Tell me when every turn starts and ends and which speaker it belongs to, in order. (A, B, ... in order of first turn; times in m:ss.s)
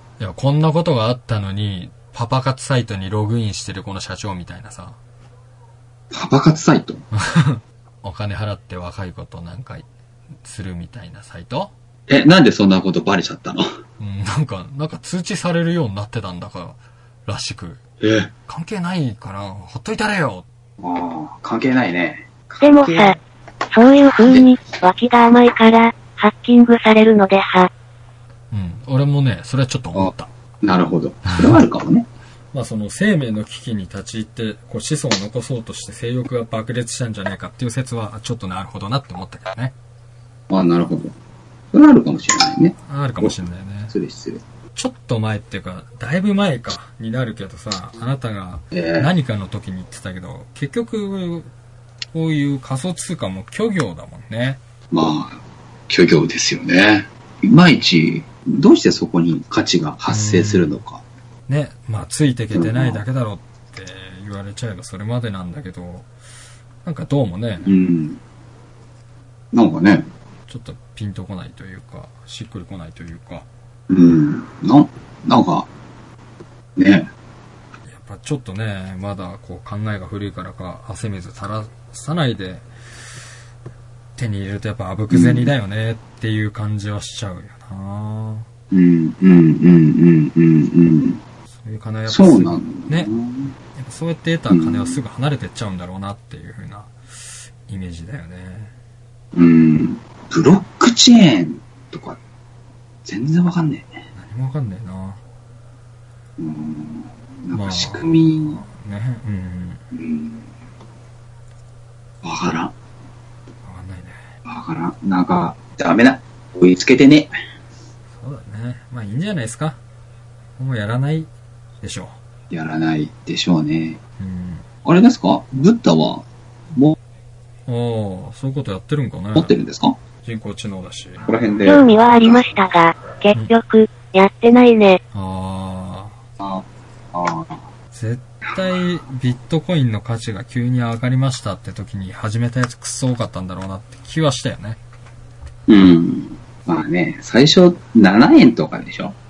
0:00.2-0:05.0 A
0:06.1-0:07.0 B
0:07.1-0:09.9 A
0:10.4-0:11.7 A
0:12.1-0:13.6 B
0:14.0-0:17.8 A
0:18.0-0:18.3 B
0:18.5-0:20.5 A
0:20.8-0:23.2 B
0:22.6-0:23.2 C
0:23.7-0:27.7 C
0:28.5-0:30.3 A
0:30.0-0:32.1 B
0:31.2-0:31.6 A
0:32.5-0:39.7 A
0:40.5-0:41.2 B
0:41.7-0:43.4 B
0:42.9-0:43.9 A
0:43.9-0:44.4 B
0:44.8-0:51.5 A
0:48.7-0:49.1 B
0:52.1-0:54.6 A
0:54.9-1:01.0 B
1:00.1-1:00.8 A
1:01.5-1:06.1 A
1:02.5-1:03.0 B
1:06.8-1:07.7 A
1:07.6-1:08.2 B
1:09.5-1:10.1 B
1:10.5-1:13.5 A
1:13.9-1:15.7 B
1:16.8-1:17.1 B
1:17.9-1:22.7 A
1:24.2-1:28.5 A
1:25.1-1:25.5 B
1:28.7-1:31.2 B
1:31.6-1:33.1 A
1:32.1-1:33.5 B
1:33.8-1:36.9 A
1:34.5-1:35.0 B
1:37.7-1:38.7 A
1:39.3-1:42.2 B
1:43.0-1:44.0 B
1:44.2-1:45.2 A
1:46.4-1:48.6 B
1:47.5-1:49.8 A
1:49.9-1:50.5 B
1:52.2-1:52.7 B
1:53.6-1:54.2 A
1:54.4-1:57.3 B
1:58.2-1:59.8 A
2:00.6-2:01.3 A
2:01.8-2:02.2 A
2:02.5-2:04.0 B
2:04.2-2:04.7 A
2:04.8-2:07.0 B
2:07.7-2:09.5 A
2:09.4-2:10.0 B
2:10.2-2:11.3 A
2:11.2-2:12.5 B
2:11.6-2:15.0 C
2:15.1-2:16.2 A
2:16.4-2:17.6 B
2:17.9-2:24.8 A
2:25.7-2:29.2 B